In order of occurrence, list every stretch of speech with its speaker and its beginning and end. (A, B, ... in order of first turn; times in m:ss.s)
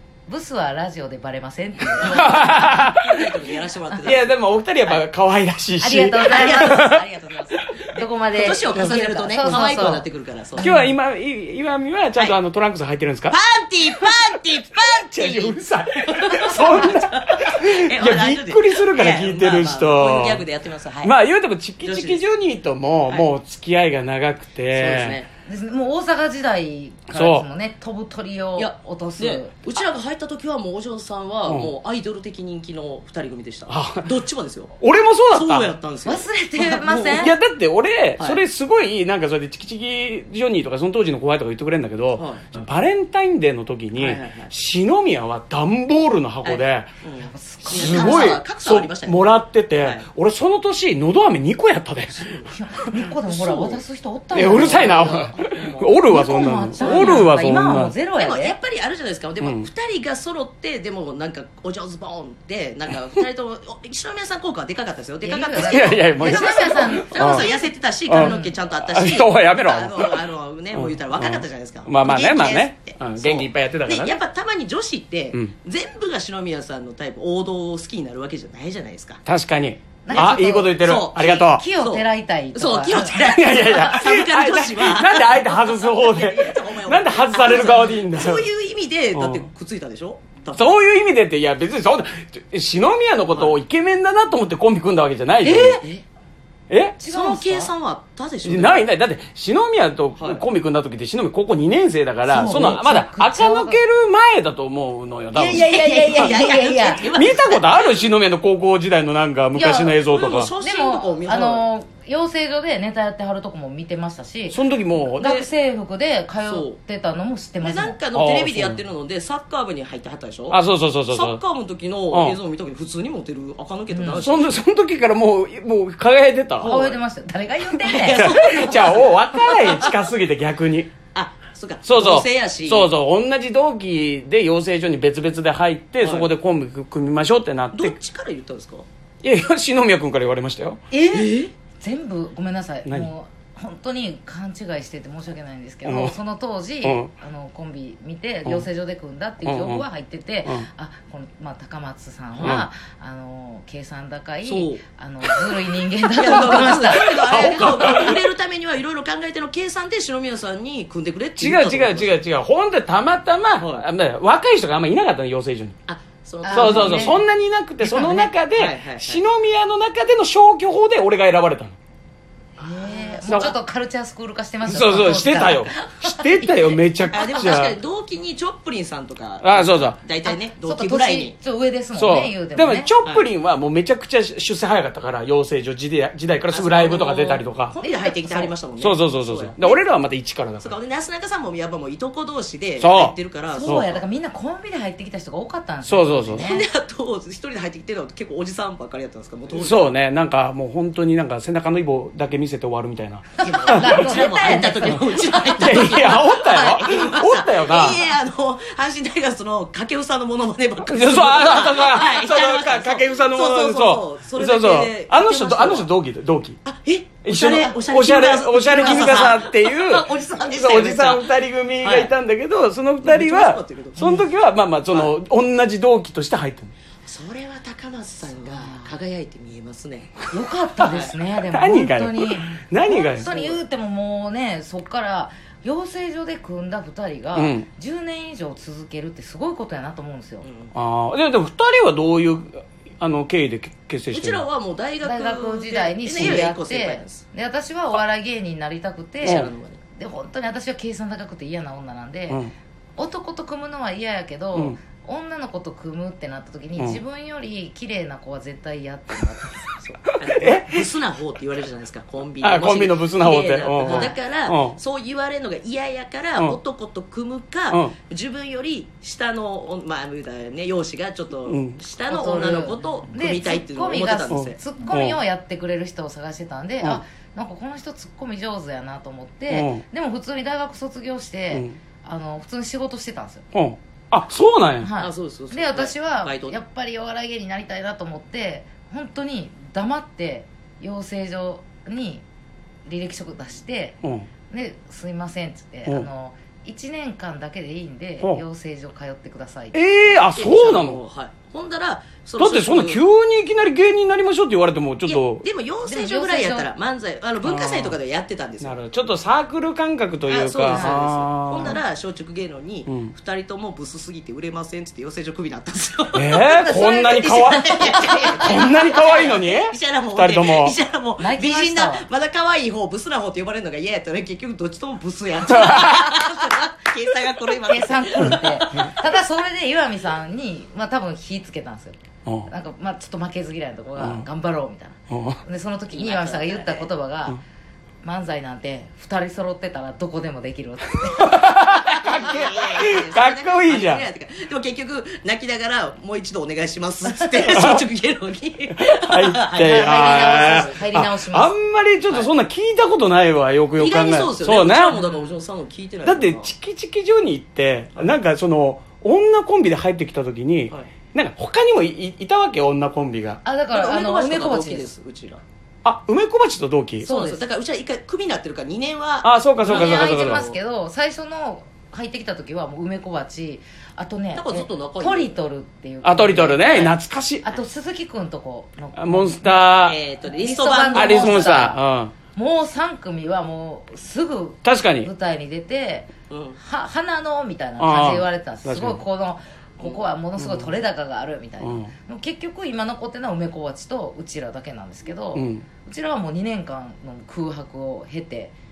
0:00.3-0:02.6 A
0:02.0-0:05.0 B
0:02.1-0:03.2 C
0:04.0-0:07.0 C
0:05.8-0:06.9 A
0:06.2-0:10.7 B
0:07.9-0:11.0 A
0:10.6-0:13.4 C
0:13.3-0:21.2 B
0:14.9-0:20.4 C
0:21.0-0:25.2 C
0:21.8-0:22.2 B
0:24.7-0:25.3 B
0:25.4-0:29.5 A
0:27.1-0:27.4 C
0:28.6-0:34.8 B
0:31.4-0:31.7 C
0:33.7-0:34.1 C
0:34.8-0:35.7 C
0:35.3-0:37.3 B
0:36.0-0:37.3 A
0:37.1-0:46.9 C
0:42.2-0:42.5 B
0:44.0-0:44.5 B
0:46.4-0:50.1 B
0:47.2-0:48.3 A
0:47.6-0:52.3 C
0:52.1-0:53.8 B
0:52.5-0:55.4 A
0:54.3-0:57.9 C
0:54.5-0:57.3 B
0:56.1-0:58.6 A
0:58.2-1:19.2 B
0:59.4-0:59.7 C
1:05.2-1:08.6 A
1:05.6-1:07.5 C
1:08.1-1:10.2 C
1:10.7-1:14.2 C
1:19.2-1:21.6 C
1:20.0-1:24.0 A
1:20.1-1:30.8 B
1:23.0-1:28.4 C
1:29.1-1:29.4 C
1:30.6-1:35.8 C
1:33.3-1:33.6 B
1:35.4-1:36.0 B
1:35.4-1:35.8 A
1:36.7-1:37.0 C
1:37.0-1:37.7 A
1:37.0-1:38.9 B
1:38.4-1:46.4 C
1:40.2-1:40.4 B
1:42.2-1:43.8 A
1:42.4-1:42.7 B
1:45.3-1:48.0 B
1:45.4-1:47.0 A
1:47.1-1:50.5 C
1:49.5-1:50.0 A
1:49.9-1:51.6 B
1:50.6-1:58.0 A
1:54.5-1:55.2 C
1:55.2-1:55.5 B
1:56.4-1:56.8 B
1:57.6-2:04.6 B
1:58.1-1:58.8 C
2:00.5-2:01.4 C
2:02.1-2:02.4 C
2:03.9-2:04.3 A
2:04.2-2:06.7 C
2:06.6-2:07.0 B
2:06.6-2:08.3 A
2:07.8-2:09.9 B
2:08.1-2:10.9 C
2:11.1-2:12.9 B
2:11.8-2:17.9 C
2:16.0-2:16.3 B
2:17.7-2:18.8 B
2:19.2-2:20.8 C
2:20.9-2:38.1 A
2:20.9-2:21.5 B
2:25.8-2:26.2 C
2:26.8-2:27.1 C
2:29.4-2:29.8 C
2:32.4-2:32.6 C
2:34.4-2:35.3 B
2:36.2-2:42.2 B
2:36.3-2:38.2 C
2:41.4-2:45.7 C
2:43.6-2:43.9 B
2:45.9-2:47.2 B
2:46.4-2:47.2 A
2:46.5-2:51.8 C
2:47.8-2:48.3 A
2:48.5-2:49.2 B
2:52.6-2:56.8 A
2:52.6-2:53.6 B
2:53.3-2:53.5 C
2:54.6-2:57.8 C
2:57.1-3:01.4 B
2:59.4-3:00.0 C
3:00.2-3:02.9 A
3:01.9-3:07.8 C
3:06.5-3:09.8 B
3:07.7-3:08.5 A
3:08.8-3:10.7 C
3:10.6-3:14.0 B
3:12.8-3:13.8 C
3:13.5-3:16.6 A
3:15.8-3:16.4 C
3:16.3-3:19.9 B
3:19.5-3:24.6 C
3:23.4-3:26.8 A
3:23.4-3:35.9 B
3:25.5-3:28.1 C
3:30.8-3:36.6 C
3:36.6-3:42.1 B
3:37.2-3:46.7 C
3:43.0-3:44.3 B
3:47.0-3:50.3 B
3:48.5-3:48.9 A
3:50.3-4:00.5 A
3:51.5-3:53.6 C
3:57.3-3:57.7 C
4:00.4-4:00.7 B
4:00.7-4:04.4 C
4:04.1-4:07.2 B
4:05.0-4:12.4 A
4:06.2-4:06.5 C
4:09.2-4:09.8 B
4:09.2-4:09.5 C
4:13.0-4:19.7 A
4:19.8-4:34.6 B
4:20.2-4:20.8 C
4:22.4-4:24.8 C
4:23.8-4:24.2 A
4:31.4-4:31.8 C
4:32.1-4:43.4 A
4:34.3-4:35.2 C
4:39.5-4:39.8 C
4:41.5-4:41.8 C
4:43.5-4:44.9 C
4:44.8-4:52.2 A
4:45.0-4:46.6 B
4:52.8-4:54.0 A
4:54.5-5:00.2 A
4:59.7-5:01.0 C
5:00.3-5:03.0 B
5:02.4-5:05.4 C
5:05.0-5:08.7 B
5:05.8-5:06.7 A
5:07.4-5:08.0 C
5:08.6-5:11.8 C
5:10.3-5:28.8 B
5:10.7-5:11.0 A
5:12.8-5:13.1 C
5:16.1-5:20.8 C
5:16.7-5:18.6 A
5:21.2-5:22.0 A
5:25.5-5:26.1 C
5:27.7-5:37.4 A
5:34.0-5:34.2 C
5:35.1-5:35.4 C
5:35.9-5:36.9 B
5:38.0-5:41.5 A
5:41.1-5:44.0 C
5:41.8-5:50.8 B
5:47.5-5:47.8 C
5:48.9-5:55.0 C
5:49.6-5:51.6 A
5:52.1-5:52.3 B
5:53.8-5:56.5 B
5:54.9-5:55.2 A
5:56.0-6:03.4 C
6:03.4-6:04.9 A
6:03.7-6:05.4 B
6:05.8-6:07.1 C
6:07.0-6:10.6 B
6:07.0-6:07.4 A
6:09.2-6:10.4 C
6:09.7-6:19.7 A
6:14.3-6:15.3 B
6:16.0-6:17.4 C
6:19.0-6:20.0 C
6:19.8-6:21.7 B
6:20.3-6:21.8 A
6:20.9-6:22.1 C
6:22.3-6:38.5 A
6:24.6-6:25.1 C
6:26.3-6:26.6 B
6:27.8-6:29.0 C
6:30.4-6:30.7 C
6:31.6-6:31.9 C
6:35.3-6:35.6 C